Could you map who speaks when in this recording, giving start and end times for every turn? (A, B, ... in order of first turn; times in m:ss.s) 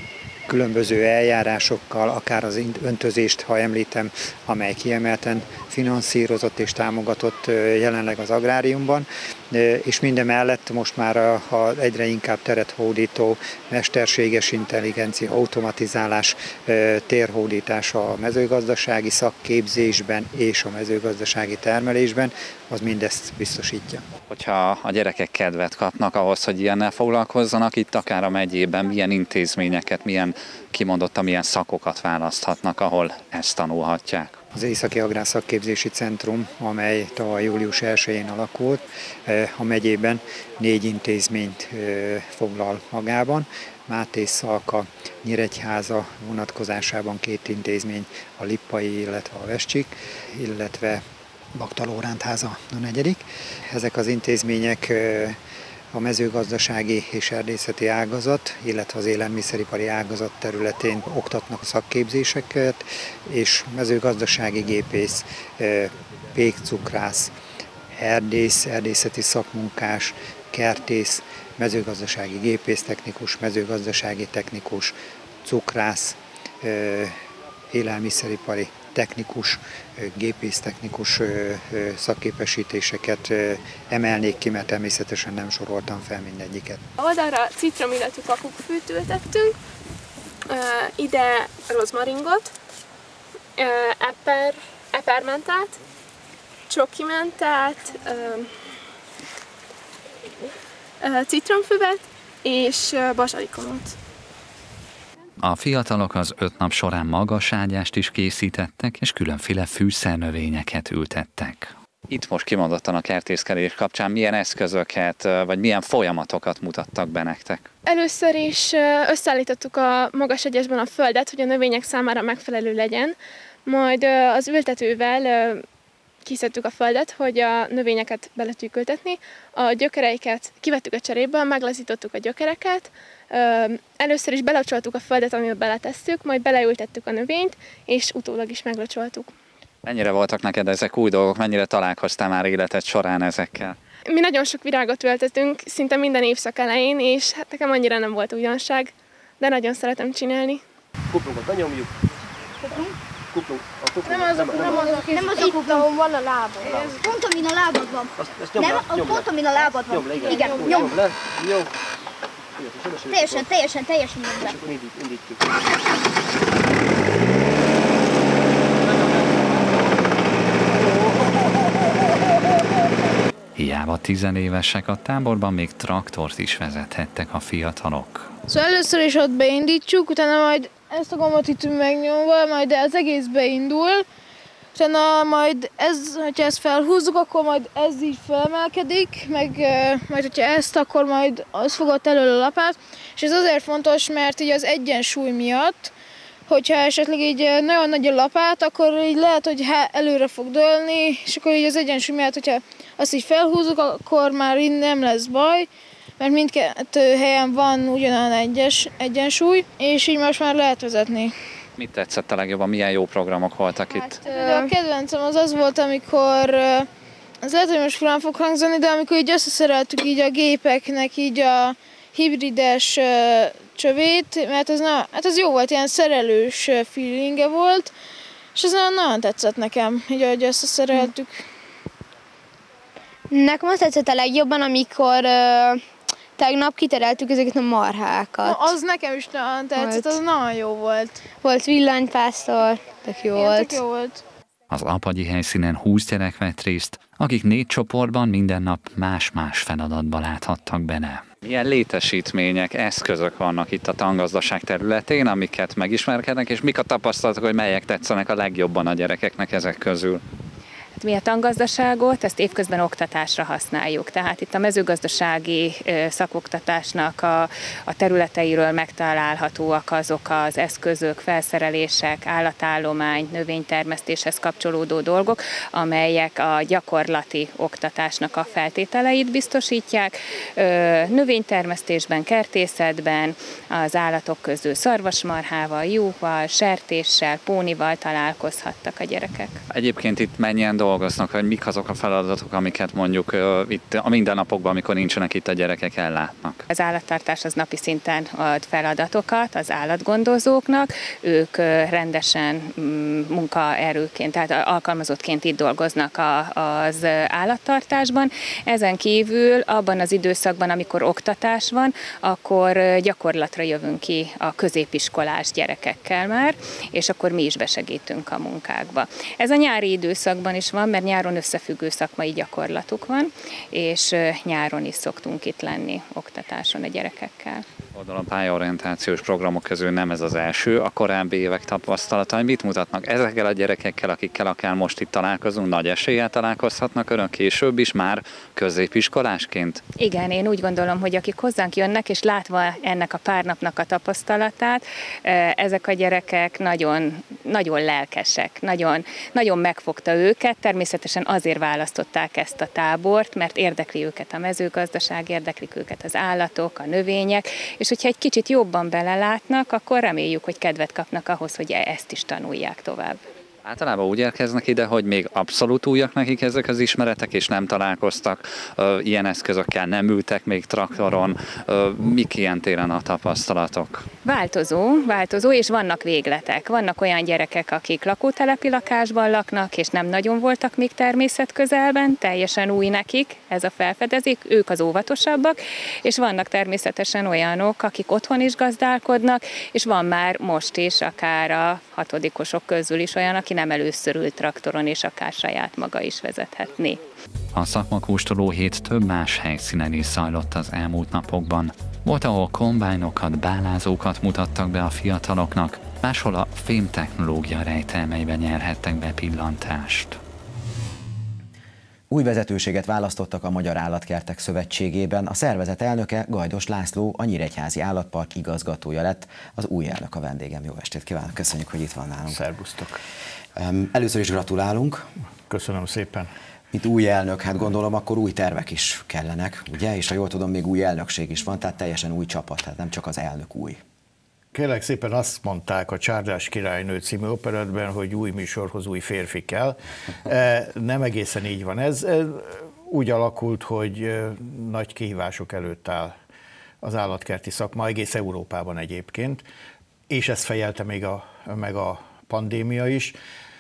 0:00.5-0:24.0 A
0:24.3-0:34.4 B
0:34.5-0:51.0 A
0:51.5-0:55.4 A
0:55.9-1:07.3 A
1:07.9-1:17.2 A
1:17.7-1:26.8 A
1:27.0-1:29.6 C
1:30.5-1:32.5 C
1:33.6-1:35.8 C
1:36.7-1:38.5 C
1:41.0-1:44.0 C
1:45.4-1:57.7 B
1:57.9-2:05.6 C
2:06.2-2:19.3 C
2:19.8-2:23.8 B
2:24.1-2:30.6 C
2:31.1-2:32.0 D
2:32.6-2:33.0 E
2:33.3-2:34.8 D
2:34.0-2:36.2 F
2:34.6-2:35.9 E
2:36.6-2:37.0 D
2:36.6-2:41.0 E
2:38.2-2:41.7 D
2:42.6-2:43.5 D
2:43.1-2:44.6 E
2:44.4-2:45.4 D
2:50.7-2:51.1 D
2:53.6-2:58.3 B
2:58.5-3:04.0 F
3:04.8-3:15.9 F
3:16.5-3:25.7 F
3:26.2-3:31.3 F
3:31.8-3:34.2 B
3:34.0-3:36.9 F
3:34.2-3:34.7 G
3:37.4-3:47.9 F
3:48.6-3:51.4 F
3:53.3-3:55.8 G
3:56.4-3:58.7 G
3:58.4-4:01.2 F
3:59.8-4:00.1 G
4:01.4-4:03.8 G
4:03.3-4:04.2 F
4:04.7-4:20.2 B
4:21.0-4:49.6 H
4:49.7-4:56.6 B
4:56.7-5:27.7 H
5:27.9-5:39.8 B
5:40.0-6:03.2 H
6:03.6-6:14.1 B
6:14.2-6:37.0 H
6:37.5-6:50.2 B
6:52.1-7:02.4 I
7:02.3-7:03.0 J
7:03.6-7:05.1 I
7:05.5-7:06.3 J
7:06.7-7:13.8 I
7:14.5-7:26.2 J
7:26.8-7:29.4 J
7:30.1-7:33.2 J